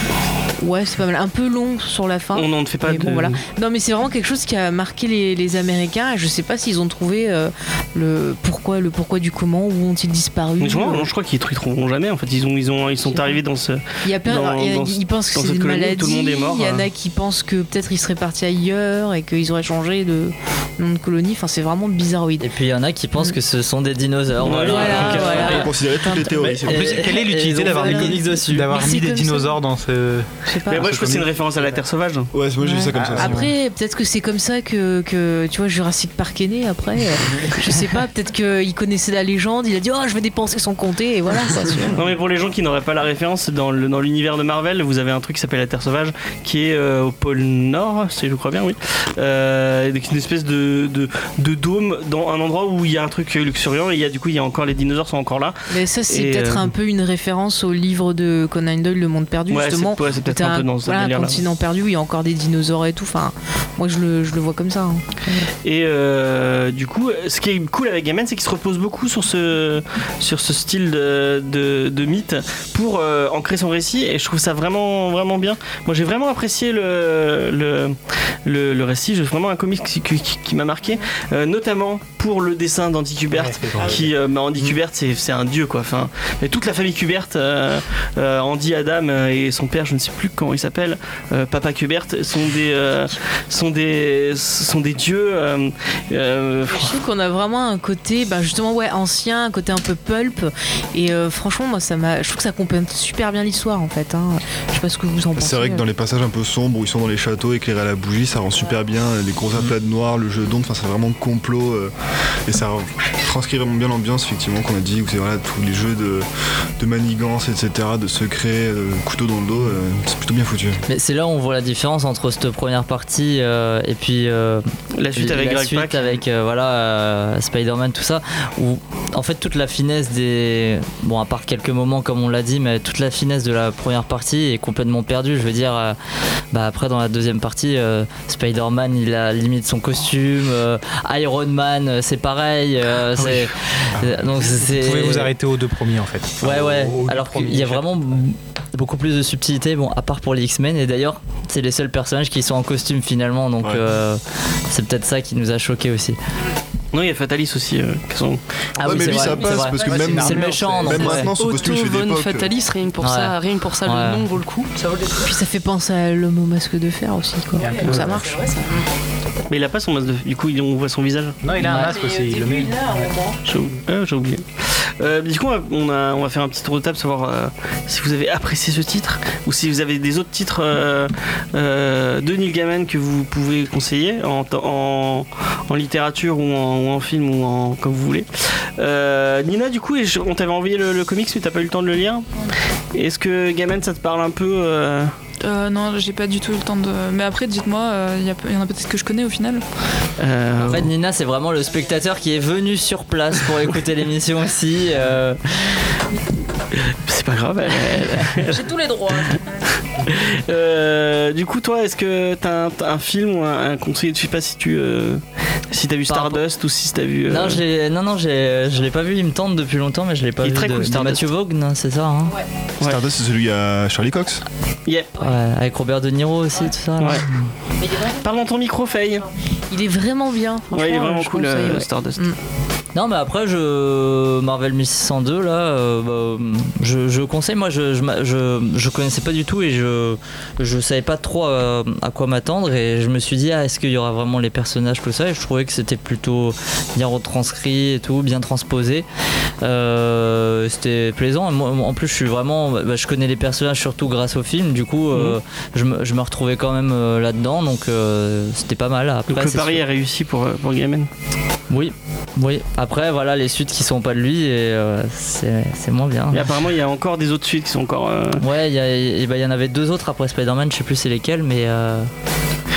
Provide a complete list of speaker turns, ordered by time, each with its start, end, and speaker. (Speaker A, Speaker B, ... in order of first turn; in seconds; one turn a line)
Speaker A: 0.6-11.1
Speaker B: 2.3-3.4
Speaker B: 10.6-16.9
Speaker A: 13.1-13.4
Speaker A: 14.0-22.5
Speaker C: 22.4-25.7
Speaker B: 24.4-25.6
Speaker A: 24.5-26.6
Speaker D: 24.6-27.0
Speaker E: 26.7-31.4
Speaker C: 26.7-28.7
Speaker A: 27.7-29.6
Speaker A: 30.5-31.0
Speaker B: 30.7-32.3
Speaker D: 32.3-33.5
Speaker A: 32.6-42.0
Speaker E: 32.9-33.5
Speaker B: 41.9-55.6
Speaker A: 55.7-65.5
Speaker B: 56.1-56.7
Speaker B: 59.5-61.4
Speaker B: 65.6-96.9
Speaker E: 83.3-84.1
Speaker A: 96.7-105.8
Speaker D: 105.4-111.9
Speaker D: 112.5-116.3
Speaker D: 116.8-120.8
Speaker C: 120.9-124.6
Speaker B: 125.0-126.2
Speaker C: 125.2-136.0
Speaker C: 136.5-145.3
Speaker D: 143.9-144.5
Speaker E: 144.4-147.9
Speaker C: 146.4-156.2
Speaker D: 146.6-146.9
Speaker D: 153.6-154.0
Speaker B: 156.9-158.4
Speaker C: 158.8-161.3
Speaker D: 158.8-162.6
Speaker E: 158.9-161.3
Speaker F: 159.6-160.0
Speaker F: 160.9-165.3
Speaker C: 163.0-164.3
Speaker A: 165.2-168.3
Speaker E: 167.6-168.4
Speaker F: 167.6-168.9
Speaker B: 169.5-171.4
Speaker E: 171.4-173.1
Speaker C: 171.6-171.9
Speaker A: 171.9-173.4
Speaker B: 173.4-192.4
Speaker B: 192.9-195.1
Speaker G: 195.4-199.6
Speaker B: 200.2-200.9
Speaker C: 200.6-205.8
Speaker B: 206.8-209.4
Speaker B: 210.0-217.6
Speaker C: 216.1-216.4
Speaker C: 217.3-222.4
Speaker B: 220.4-221.3
Speaker D: 222.8-224.4
Speaker B: 224.9-225.3
Speaker C: 225.2-227.5
Speaker B: 227.0-227.3
Speaker A: 227.9-228.1
Speaker B: 228.0-229.3
Speaker A: 229.7-232.4
Speaker B: 230.7-232.3
Speaker C: 232.9-249.1
Speaker C: 249.6-259.8
Speaker B: 255.1-255.4
Speaker B: 259.3-261.1
Speaker C: 261.7-266.5
Speaker B: 266.3-268.4
Speaker C: 268.4-272.1